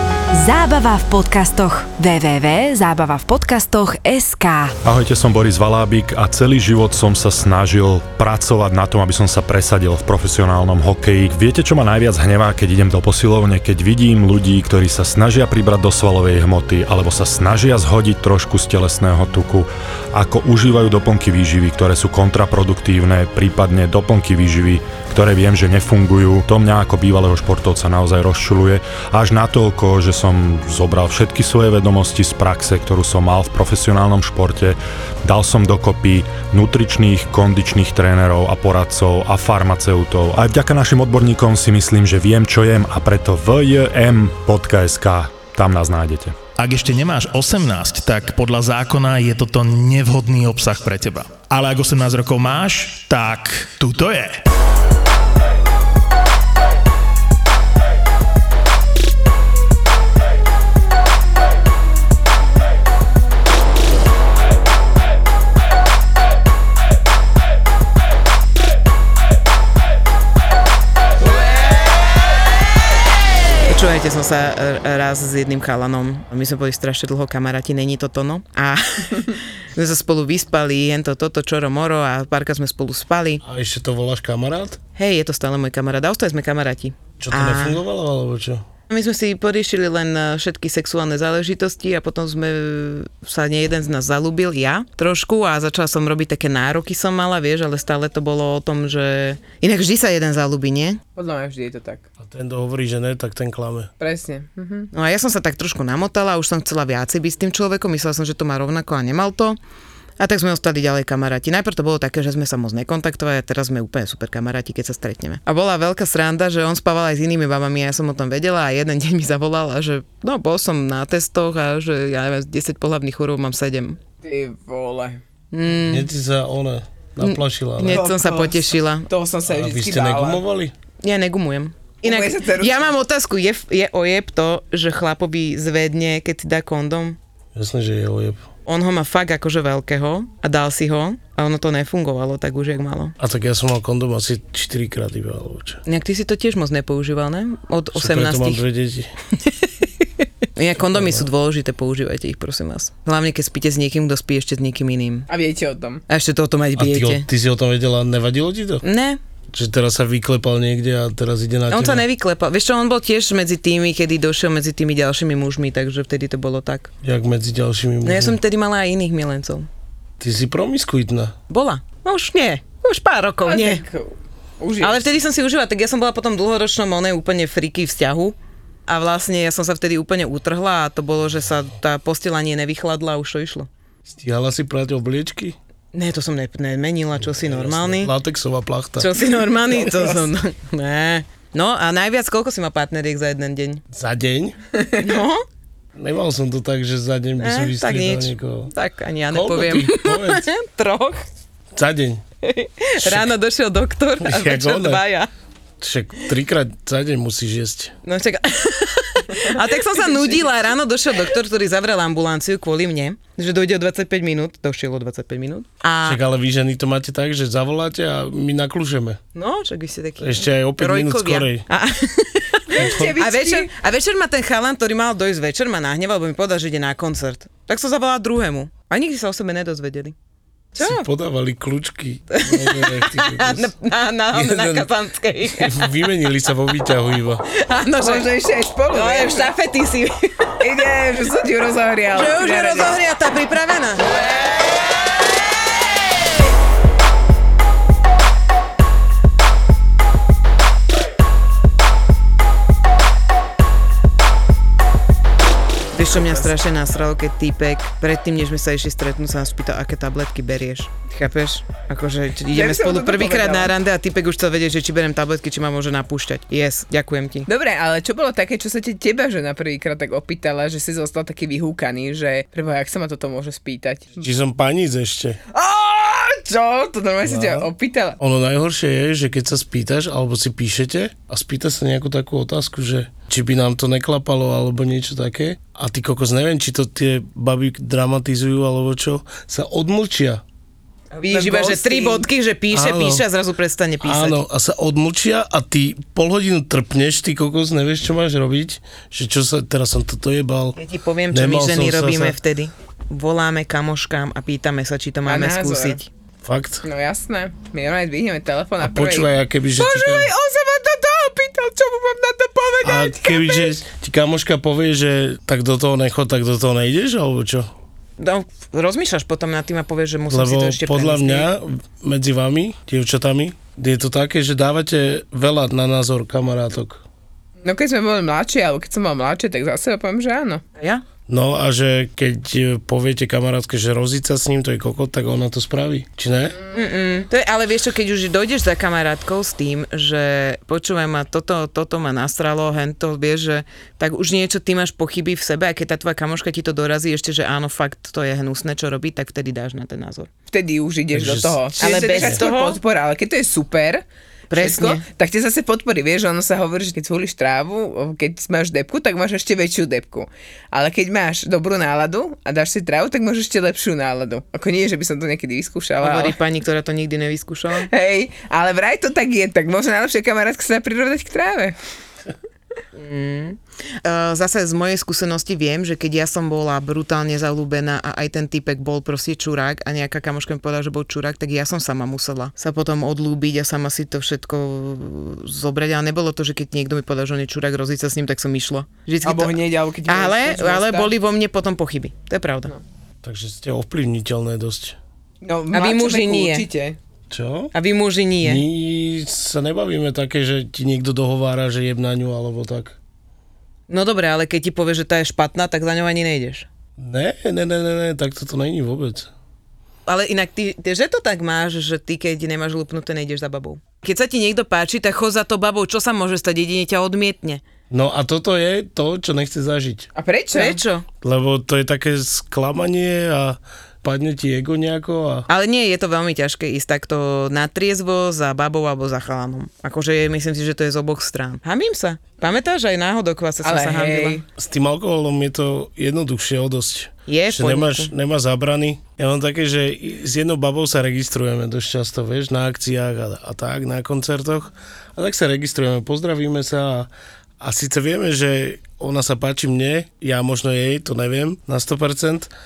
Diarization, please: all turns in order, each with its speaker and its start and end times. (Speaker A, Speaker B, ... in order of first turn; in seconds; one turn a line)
Speaker A: 0.3-4.7
Speaker B: 4.8-46.4
Speaker C: 46.5-54.4
Speaker D: 73.7-83.4
Speaker E: 83.4-84.8
Speaker D: 85.0-87.8
Speaker E: 87.2-88.6
Speaker D: 88.9-101.0
Speaker F: 101.2-102.0
Speaker E: 102.2-103.9
Speaker F: 104.0-104.9
Speaker D: 104.9-109.6
Speaker D: 110.2-124.0
Speaker F: 124.2-125.2
Speaker D: 125.5-126.1
Speaker E: 125.7-128.1
Speaker D: 127.2-129.1
Speaker F: 127.8-130.4
Speaker E: 129.5-130.7
Speaker D: 131.0-137.2
Speaker F: 132.0-132.9
Speaker E: 137.5-138.4
Speaker D: 138.7-143.2
Speaker E: 143.2-145.8
Speaker D: 145.8-148.6
Speaker E: 147.9-149.1
Speaker D: 150.6-155.3
Speaker E: 150.9-151.2
Speaker F: 155.3-156.0
Speaker D: 156.1-157.2
Speaker E: 156.8-158.8
Speaker D: 158.8-159.2
Speaker E: 159.5-162.0
Speaker D: 161.7-166.9
Speaker E: 167.0-168.4
Speaker D: 168.0-169.7
Speaker E: 170.2-171.3
Speaker D: 171.5-173.8
Speaker F: 173.4-175.0
Speaker D: 174.8-178.3
Speaker D: 178.9-183.7
Speaker E: 184.1-185.6
Speaker D: 185.9-188.1
Speaker E: 187.2-189.1
Speaker D: 189.0-193.8
Speaker F: 189.9-190.2
Speaker E: 193.9-194.6
Speaker F: 194.7-195.1
Speaker D: 195.0-195.4
Speaker E: 195.9-198.7
Speaker D: 197.4-201.2
Speaker E: 199.3-200.5
Speaker E: 201.7-202.2
Speaker D: 202.4-205.3
Speaker E: 203.0-203.3
Speaker E: 204.2-205.0
Speaker E: 205.8-207.9
Speaker D: 208.0-216.2
Speaker E: 216.0-219.2
Speaker D: 219.3-230.1
Speaker E: 220.2-221.7
Speaker F: 222.7-223.7
Speaker E: 222.8-223.1
Speaker D: 230.7-231.1
Speaker E: 230.8-233.7
Speaker D: 232.3-235.9
Speaker E: 234.3-234.9
Speaker E: 235.5-237.4
Speaker D: 237.5-238.3
Speaker F: 238.0-239.5
Speaker D: 238.9-240.5
Speaker F: 240.6-242.9
Speaker D: 242.1-244.2
Speaker D: 255.9-267.5
Speaker F: 262.5-263.7
Speaker F: 267.5-274.2
Speaker E: 274.2-275.4
Speaker F: 275.5-278.2
Speaker E: 277.2-290.4
Speaker D: 291.1-294.4
Speaker F: 291.2-292.3
Speaker E: 292.7-293.2
Speaker E: 294.0-300.8
Speaker D: 300.8-306.1
Speaker E: 301.3-302.4
Speaker F: 305.2-306.0
Speaker E: 306.4-306.8
Speaker F: 306.8-313.7
Speaker E: 308.8-310.3
Speaker E: 312.8-317.7
Speaker D: 318.2-321.5
Speaker E: 320.3-327.0
Speaker F: 327.6-330.6
Speaker D: 330.8-331.0
Speaker E: 331.3-336.6
Speaker D: 336.7-350.3
Speaker F: 350.5-354.0
Speaker E: 351.1-352.4
Speaker D: 351.8-352.8
Speaker D: 354.5-355.0
Speaker F: 354.6-366.4
Speaker D: 366.0-367.9
Speaker F: 367.8-371.8
Speaker D: 372.9-392.7
Speaker F: 389.2-391.1
Speaker E: 393.2-395.0
Speaker F: 395.4-397.0
Speaker D: 395.7-396.7
Speaker E: 397.3-397.7
Speaker D: 397.7-398.6
Speaker E: 398.4-402.9
Speaker D: 403.9-406.7
Speaker E: 407.0-409.3
Speaker D: 410.1-417.6
Speaker E: 417.9-420.1
Speaker F: 420.1-420.8
Speaker D: 420.5-421.1
Speaker E: 421.2-425.5
Speaker D: 425.5-434.4
Speaker F: 433.6-434.4
Speaker E: 434.5-452.5
Speaker D: 437.3-438.1